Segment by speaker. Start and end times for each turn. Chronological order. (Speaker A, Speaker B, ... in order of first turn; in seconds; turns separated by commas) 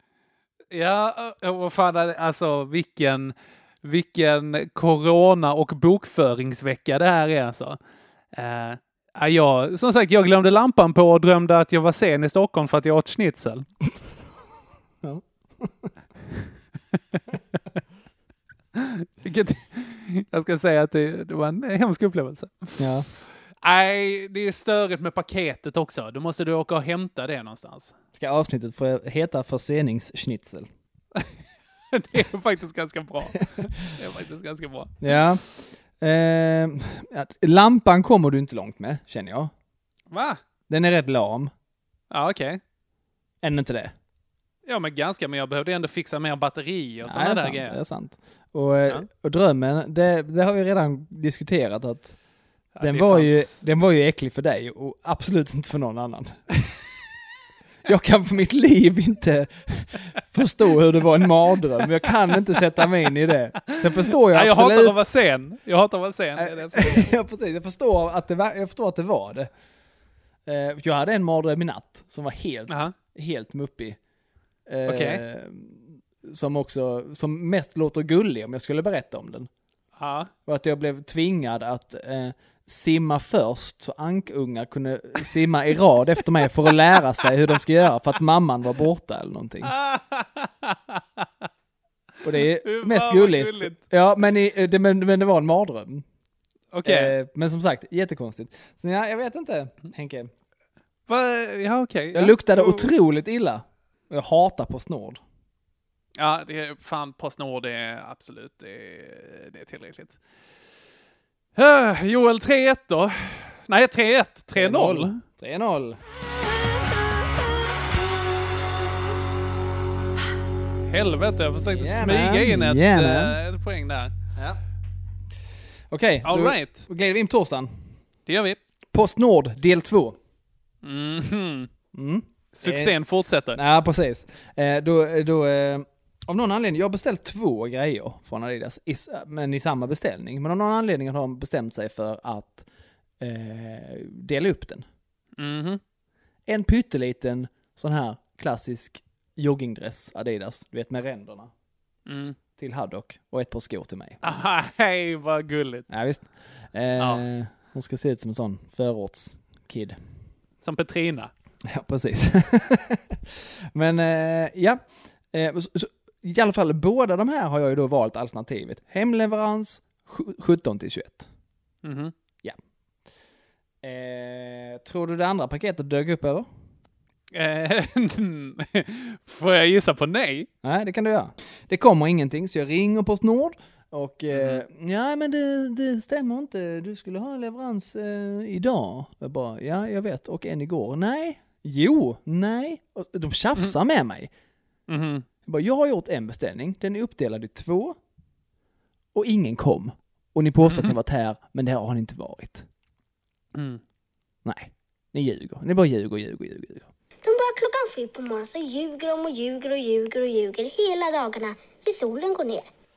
Speaker A: 0.7-7.8, Speaker A: 8.3-13.7, Speaker B: 15.0-15.9, Speaker A: 18.8-22.8, Speaker B: 22.8-23.1, Speaker A: 23.6-27.9, Speaker B: 28.1-30.7, Speaker A: 31.9-35.0, Speaker B: 35.0-39.5, Speaker A: 40.1-40.4, Speaker B: 40.7-41.5, Speaker A: 42.1-42.6, Speaker B: 43.4-43.9, Speaker A: 44.6-47.8, Speaker B: 47.0-52.2, Speaker A: 52.8-53.6, Speaker B: 52.8-56.4, Speaker B: 57.9-65.0, Speaker A: 63.7-67.1, Speaker B: 66.4-69.5, Speaker B: 70.5-74.0, Speaker B: 74.7-79.5, Speaker A: 74.8-75.2, Speaker A: 80.0-80.3, Speaker B: 80.5-89.7, Speaker A: 89.7-91.2, Speaker B: 92.2-96.0, Speaker A: 92.6-93.8, Speaker A: 96.7-97.1, Speaker B: 96.8-100.3, Speaker A: 101.1-102.9, Speaker B: 102.1-105.2, Speaker A: 106.2-110.2, Speaker A: 111.5-115.2, Speaker B: 114.5-116.0, Speaker A: 120.8-124.1, Speaker B: 121.7-123.4, Speaker B: 125.9-128.0, Speaker A: 126.2-126.9, Speaker A: 128.2-128.6, Speaker B: 128.9-130.2, Speaker A: 130.8-131.7, Speaker B: 131.9-133.0, Speaker A: 132.5-133.6, Speaker B: 133.5-142.7, Speaker B: 143.2-144.8, Speaker A: 145.4-145.8, Speaker B: 146.4-151.5, Speaker A: 152.1-152.4, Speaker B: 152.6-154.2, Speaker A: 154.2-155.9, Speaker B: 155.9-160.0, Speaker A: 157.0-157.2, Speaker A: 160.6-161.3, Speaker B: 161.7-163.2, Speaker B: 163.7-171.3, Speaker A: 171.8-172.1, Speaker B: 173.8-176.5, Speaker A: 177.3-180.5, Speaker B: 180.6-194.3, Speaker A: 184.3-184.6, Speaker A: 194.9-195.2, Speaker B: 195.4-198.0, Speaker B: 199.1-202.7, Speaker A: 200.7-200.9, Speaker A: 203.5-203.8, Speaker B: 204.4-206.9, Speaker C: 207.2-212.7